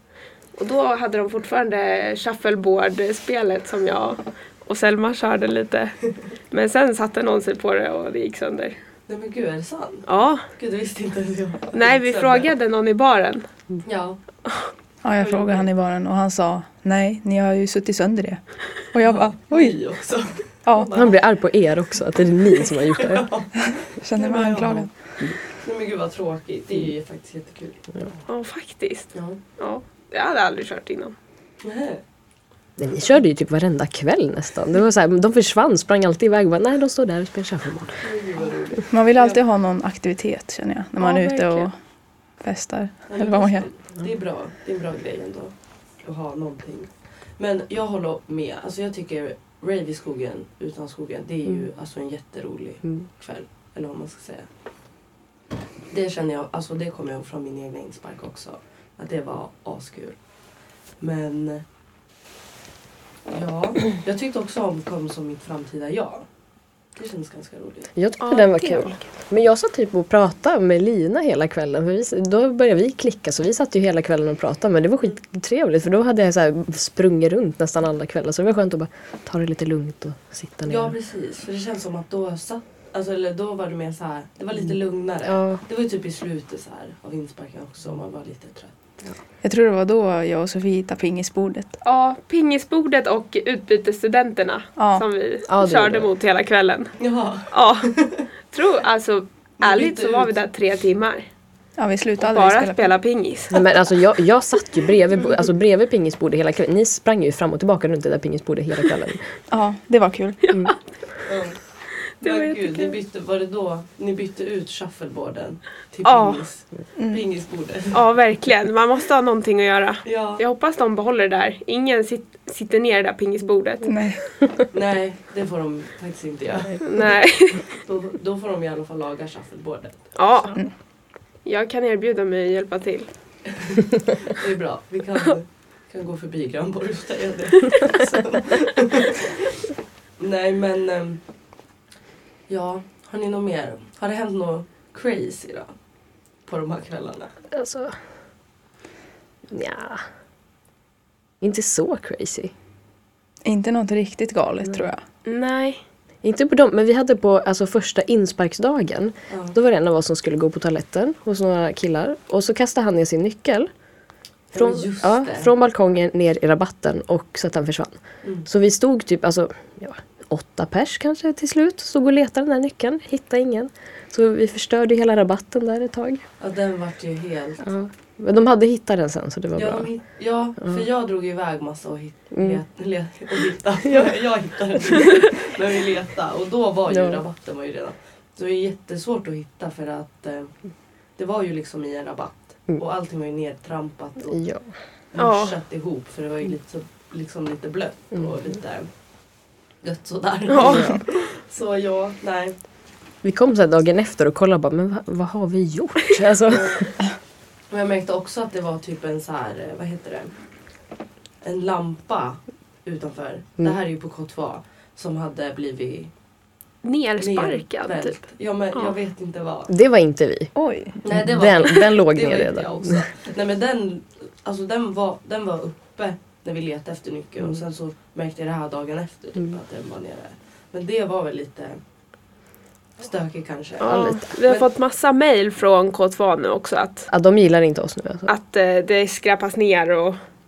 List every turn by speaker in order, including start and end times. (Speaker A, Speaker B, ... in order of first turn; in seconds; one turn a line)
Speaker A: 0.6-5.9
Speaker A: 6.5-8.8
Speaker B: 9.1-10.1
Speaker A: 10.1-10.4
Speaker B: 10.6-12.5
Speaker A: 11.7-13.5
Speaker B: 13.8-14.2
Speaker C: 15.0-18.4
Speaker B: 15.2-15.7
Speaker C: 18.9-19.8
Speaker B: 19.0-21.2
Speaker C: 20.7-20.9
Speaker D: 20.9-23.3
Speaker B: 22.6-24.9
Speaker C: 24.0-24.9
Speaker B: 25.6-27.9
Speaker A: 28.3-31.1
Speaker B: 29.1-29.4
Speaker B: 31.6-32.0
Speaker D: 32.8-38.0
Speaker B: 38.0-39.4
Speaker C: 38.9-41.8
Speaker B: 41.0-41.7
Speaker C: 42.4-43.7
Speaker B: 43.1-54.5
Speaker B: 55.9-60.2
Speaker B: 61.0-61.6
Speaker B: 63.3-66.3
Speaker B: 67.0-67.9
Speaker D: 68.0-81.0
Speaker A: 68.2-69.0
Speaker B: 80.7-88.9
Speaker D: 85.2-85.6
Speaker C: 89.4-91.8
Speaker A: 91.8-96.9
Speaker C: 94.8-95.0
Speaker D: 95.5-96.1
Speaker B: 97.0-98.2
Speaker A: 97.5-97.9
Speaker A: 98.5-101.3
Speaker B: 99.6-100.3
Speaker C: 101.8-102.9
Speaker A: 102.2-103.6
Speaker D: 103.5-109.2
Speaker C: 109.5-110.6
Speaker A: 110.4-110.7
Speaker B: 111.3-111.6
Speaker A: 112.2-113.0
Speaker B: 112.2-118.0
Speaker A: 116.0-116.4
Speaker C: 117.0-117.2
Speaker A: 117.9-124.0
Speaker B: 120.0-120.4
Speaker C: 123.9-124.2
Speaker B: 124.7-126.8
Speaker A: 126.8-127.7
Speaker B: 127.8-130.1
Speaker A: 130.2-130.6
Speaker A: 131.4-133.1
Speaker B: 134.3-139.3
Speaker B: 140.2-141.2
Speaker B: 142.5-145.7
Speaker B: 146.5-147.3
Speaker D: 147.5-148.0
Speaker D: 149.5-150.0
Speaker D: 151.4-152.5
Speaker C: 153.4-155.0
Speaker A: 155.2-155.8
Speaker D: 156.2-163.7
Speaker B: 164.5-165.5
Speaker D: 164.6-176.2
Speaker B: 176.4-177.7
Speaker D: 177.6-179.9
Speaker B: 179.6-190.5
Speaker D: 180.6-180.9
Speaker D: 182.3-182.6
Speaker D: 186.9-187.2
Speaker B: 191.2-194.4
Speaker D: 194.3-194.7
Speaker B: 195.1-198.9
Speaker A: 195.2-195.5
Speaker B: 199.8-202.6
Speaker A: 200.5-200.9
Speaker D: 200.6-200.9
Speaker D: 203.2-206.9
Speaker B: 206.5-206.9
Speaker B: 207.7-210.3
Speaker B: 211.4-216.1
Speaker A: 216.8-218.2
Speaker B: 217.2-219.7
Speaker D: 219.7-220.5
Speaker C: 220.6-221.0
Speaker D: 221.0-223.1
Speaker B: 221.0-231.8
Speaker B: 233.0-234.7
Speaker A: 233.8-237.1
Speaker D: 233.8-234.3
Speaker D: 237.1-238.3
Speaker A: 238.3-240.2